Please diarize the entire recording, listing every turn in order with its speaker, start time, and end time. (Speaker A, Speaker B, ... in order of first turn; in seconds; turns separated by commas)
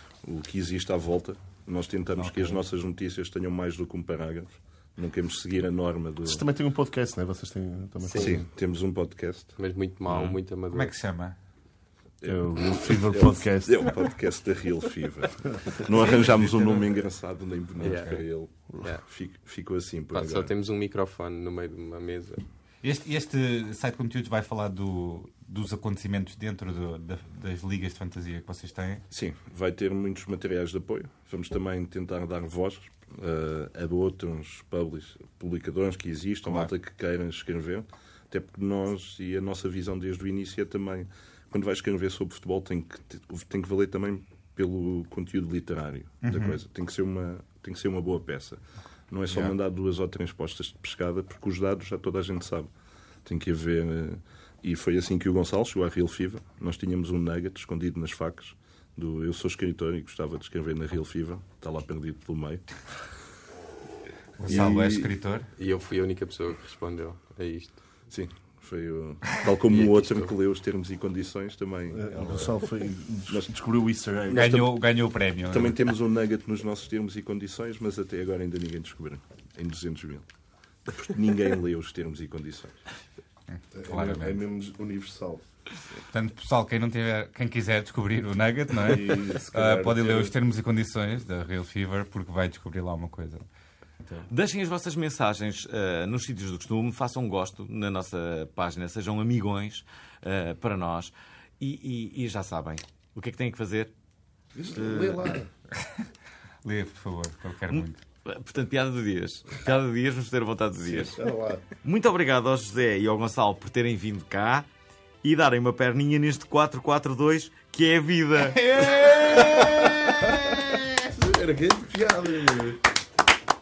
Speaker A: 0.2-6.4, Speaker B: 2.2-2.6, Speaker C: 6.2-8.5, Speaker D: 8.0-8.4, Speaker A: 8.1-9.6, Speaker D: 9.6-10.9, Speaker B: 10.1-11.3, Speaker A: 12.2-20.5, Speaker C: 12.2-13.9, Speaker B: 16.1-16.6, Speaker D: 17.8-18.2, Speaker D: 20.1-22.4, Speaker B: 22.8-29.0, Speaker A: 29.1-52.7, Speaker B: 36.4-36.7, Speaker B: 46.2-46.6, Speaker B: 49.3-49.5, Speaker A: 53.2-62.6, Speaker B: 64.4-65.5, Speaker A: 64.5-65.0, Speaker C: 64.5-65.0, Speaker D: 65.6-67.8, Speaker A: 68.1-72.5, Speaker C: 71.9-74.7, Speaker B: 74.3-75.8, Speaker A: 75.5-80.2, Speaker A: 80.9-82.8, Speaker B: 83.5-84.4, Speaker C: 83.7-85.4, Speaker B: 86.1-93.5, Speaker C: 88.8-90.3, Speaker E: 94.1-103.9, Speaker C: 104.5-105.5, Speaker E: 104.7-105.4, Speaker B: 106.6-108.0, Speaker E: 107.7-111.2, Speaker C: 111.2-111.6, Speaker E: 111.8-114.7, Speaker E: 115.2-119.0, Speaker B: 118.5-120.2, Speaker C: 119.3-120.4, Speaker C: 121.0-122.8